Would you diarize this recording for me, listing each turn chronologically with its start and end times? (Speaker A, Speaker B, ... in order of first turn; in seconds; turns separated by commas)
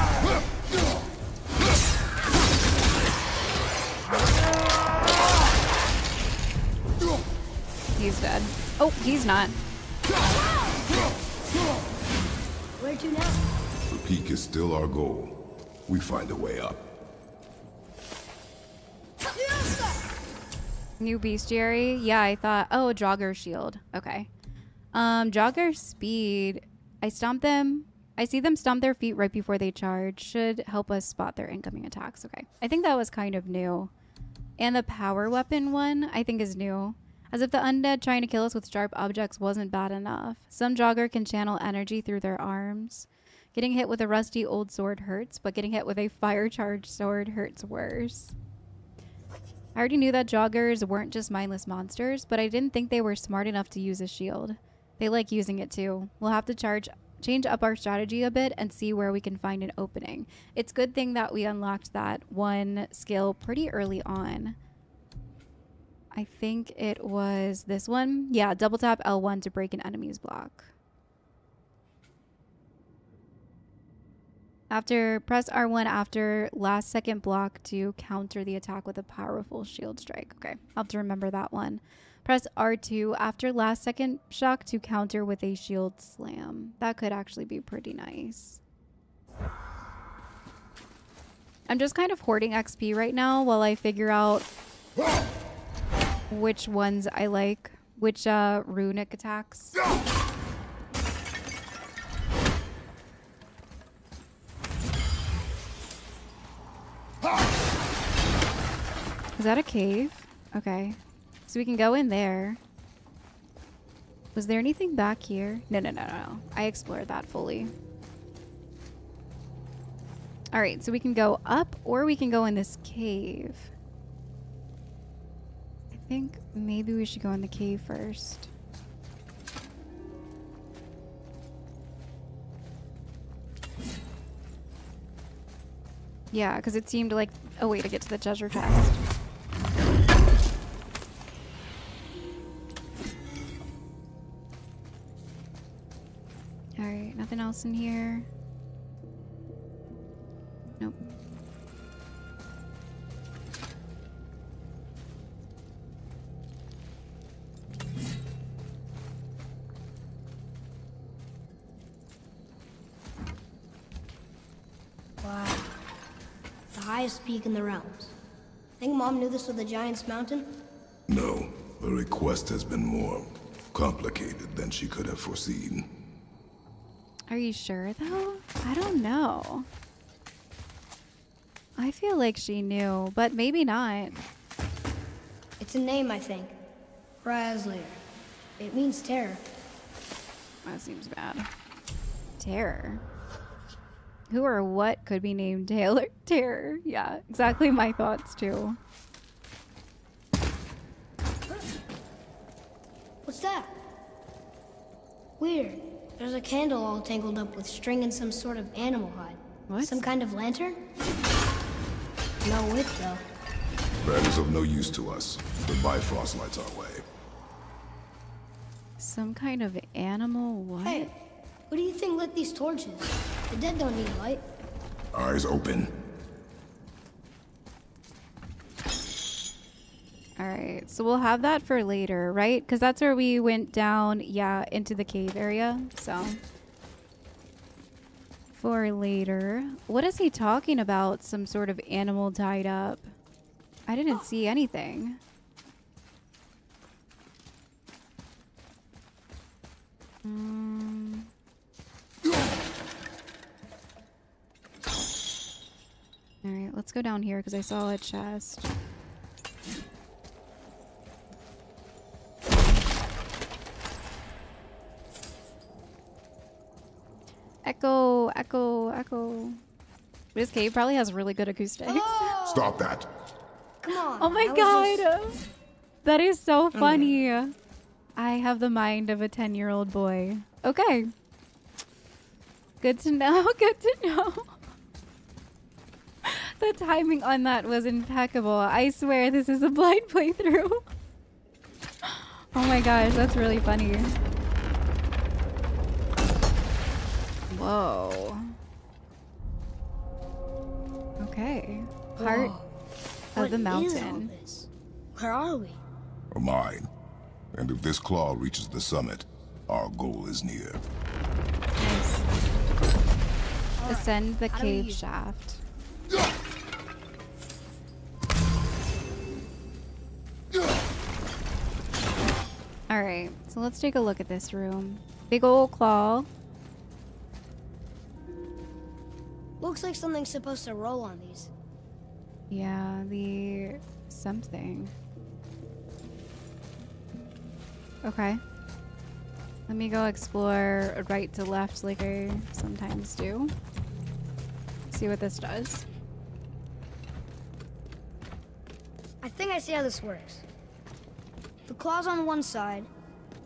Speaker A: 8.0-9.5, Speaker B: 12.8-13.4, Speaker C: 13.9-15.3, Speaker C: 15.9-16.8, Speaker A: 21.0-24.3, Speaker A: 24.9-33.9, Speaker A: 34.6-48.3, Speaker A: 49.7-64.5, Speaker A: 66.1-70.7, Speaker A: 74.7-88.6, Speaker A: 91.7-94.5, Speaker A: 96.3-99.8, Speaker A: 109.4-112.6, Speaker A: 114.3-117.7, Speaker A: 120.5-123.7, Speaker A: 125.9-128.5, Speaker A: 136.3-139.0, Speaker A: 146.8-148.3, Speaker B: 165.2-165.7, Speaker B: 166.7-168.1, Speaker B: 168.8-170.6, Speaker C: 171.1-175.9, Speaker A: 177.3-179.7, Speaker A: 181.8-184.2, Speaker B: 185.6-186.5, Speaker B: 187.2-188.0, Speaker B: 188.6-189.4, Speaker A: 190.6-191.5, Speaker A: 192.4-193.0, Speaker A: 194.3-198.8, Speaker B: 203.2-203.7, Speaker B: 205.4-210.8, Speaker A: 209.7-210.0, Speaker B: 212.4-213.2, Speaker C: 214.0-217.0, Speaker A: 219.0-221.1, Speaker B: 220.8-221.1, Speaker B: 221.7-224.4, Speaker C: 225.1-225.9, Speaker A: 230.4-236.4, Speaker A: 238.5-243.1, Speaker A: 243.9-245.2, Speaker A: 250.2-251.3, Speaker A: 256.4-258.7, Speaker A: 267.6-269.6, Speaker A: 270.3-272.3, Speaker B: 271.9-272.7, Speaker C: 272.4-273.1, Speaker B: 273.8-275.1, Speaker A: 274.2-275.4, Speaker A: 276.0-277.5, Speaker B: 276.7-277.1, Speaker A: 278.1-281.1, Speaker A: 282.8-284.5, Speaker A: 286.2-290.8, Speaker A: 292.0-294.1, Speaker A: 297.5-298.5, Speaker A: 301.2-302.5, Speaker B: 302.2-302.7, Speaker A: 303.3-304.3, Speaker B: 303.4-305.8, Speaker C: 306.3-306.9, Speaker C: 307.5-310.8, Speaker A: 311.8-312.3, Speaker B: 313.8-315.0, Speaker A: 313.9-315.6, Speaker A: 322.9-326.3, Speaker B: 329.6-331.5, Speaker A: 332.5-334.9, Speaker A: 338.0-338.4, Speaker A: 339.7-343.5, Speaker A: 344.9-345.9, Speaker B: 349.2-350.4, Speaker B: 351.7-352.9